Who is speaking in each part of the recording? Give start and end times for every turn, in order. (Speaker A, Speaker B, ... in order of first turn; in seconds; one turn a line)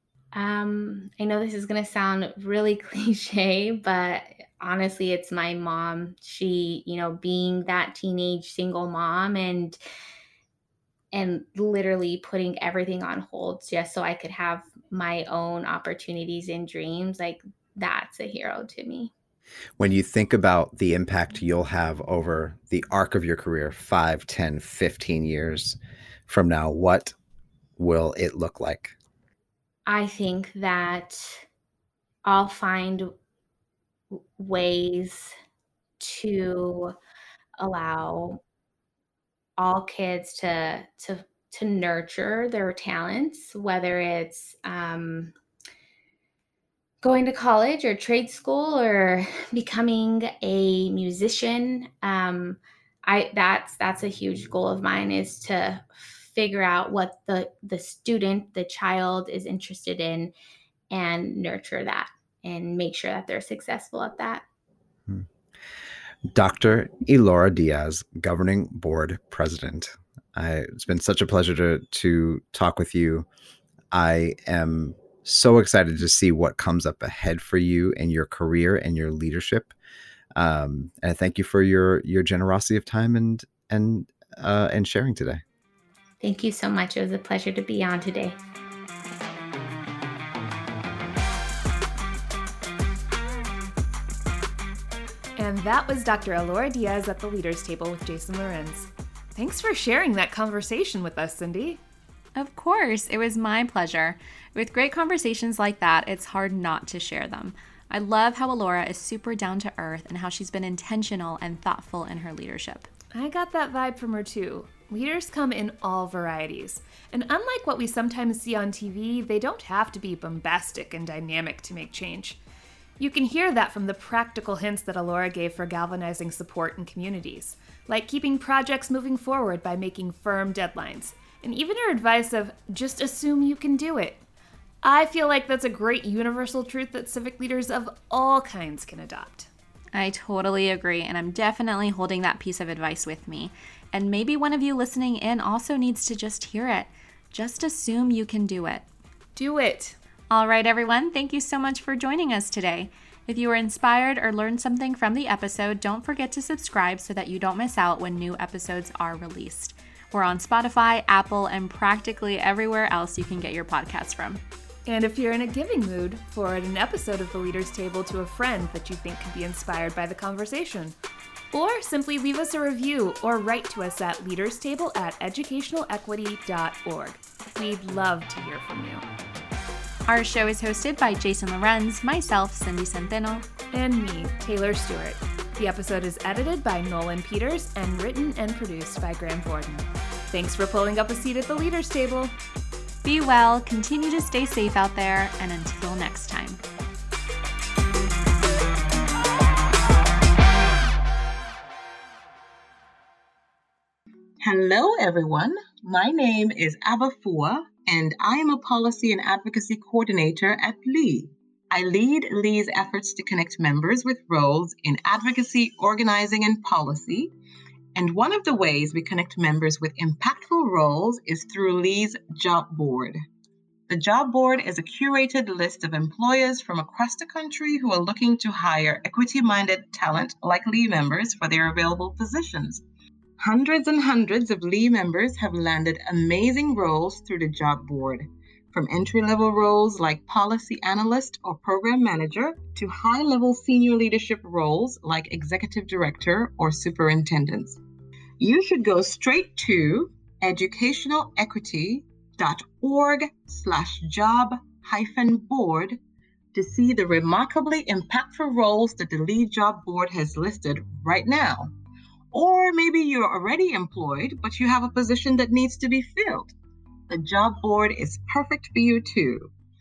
Speaker A: 0.3-9.8
Speaker A: 11.1-19.1
Speaker B: 19.8-27.1
Speaker B: 27.8-28.9
Speaker A: 29.9-31.4
Speaker A: 32.2-33.1
Speaker A: 34.1-35.3
Speaker A: 36.0-36.9
Speaker A: 37.6-38.4
Speaker A: 39.6-45.3
Speaker A: 47.0-60.3
Speaker A: 60.9-64.4
Speaker B: 66.3-73.3
Speaker B: 73.9-79.7
Speaker B: 80.3-85.4
Speaker A: 86.2-88.4
Speaker C: 95.3-101.8
Speaker D: 102.3-112.9
Speaker C: 113.1-122.4
Speaker C: 123.0-134.2
Speaker C: 134.8-139.5
Speaker D: 139.9-148.8
Speaker C: 149.3-149.9
Speaker D: 150.3-164.4
Speaker C: 164.8-170.9
Speaker C: 171.5-179.0
Speaker D: 180.1-183.4
Speaker C: 183.7-192.3
Speaker D: 193.0-196.6
Speaker E: 204.4-217.3
Speaker E: 217.9-223.2
Speaker E: 223.9-232.8
Speaker E: 233.4-247.8
Speaker E: 248.4-256.0
Speaker E: 256.5-261.7
Speaker E: 262.3-266.5
Speaker E: 267.1-269.5